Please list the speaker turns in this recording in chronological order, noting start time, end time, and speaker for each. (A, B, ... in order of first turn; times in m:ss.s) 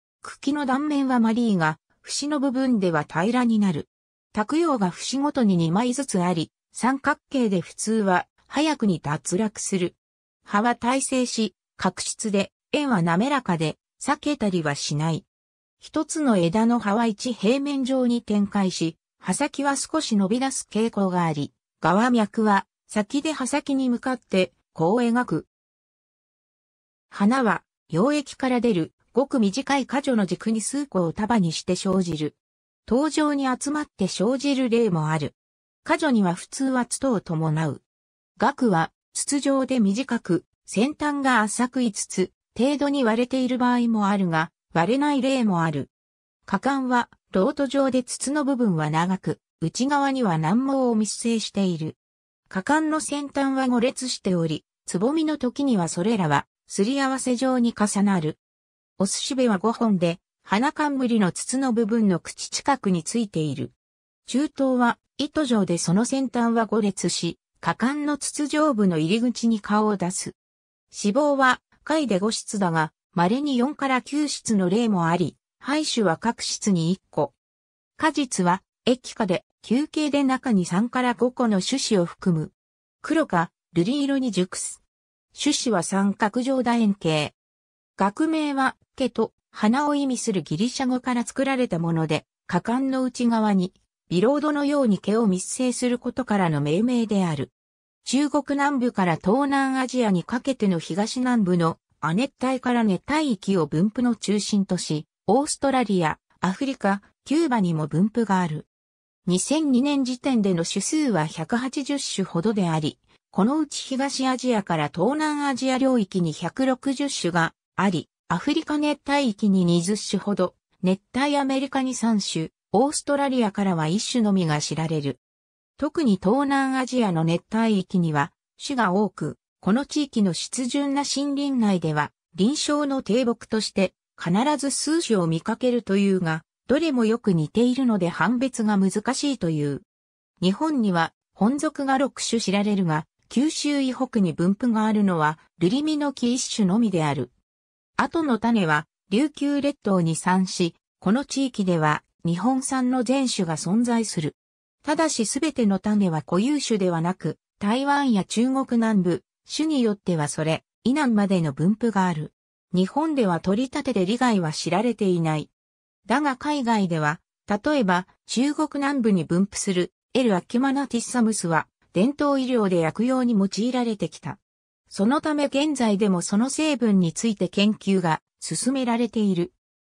0:00.2-0:15.3 A
0:15.8-0:25.5 A
0:27.1-0:37.8 A
0:38.4-0:45.9 A
0:46.5-0:52.0 A
0:52.5-0:58.4 A
0:59.0-1:03.7 A
1:04.3-1:10.4 A
1:10.9-1:17.4 A
1:18.0-1:24.8 A
1:25.3-1:27.4 A
1:28.0-1:37.5 A
1:38.0-1:48.7 A
1:49.3-2:05.2 A
2:05.8-2:19.8 A
2:20.4-2:27.3 A
2:28.0-2:45.5 A
2:46.1-2:59.6 A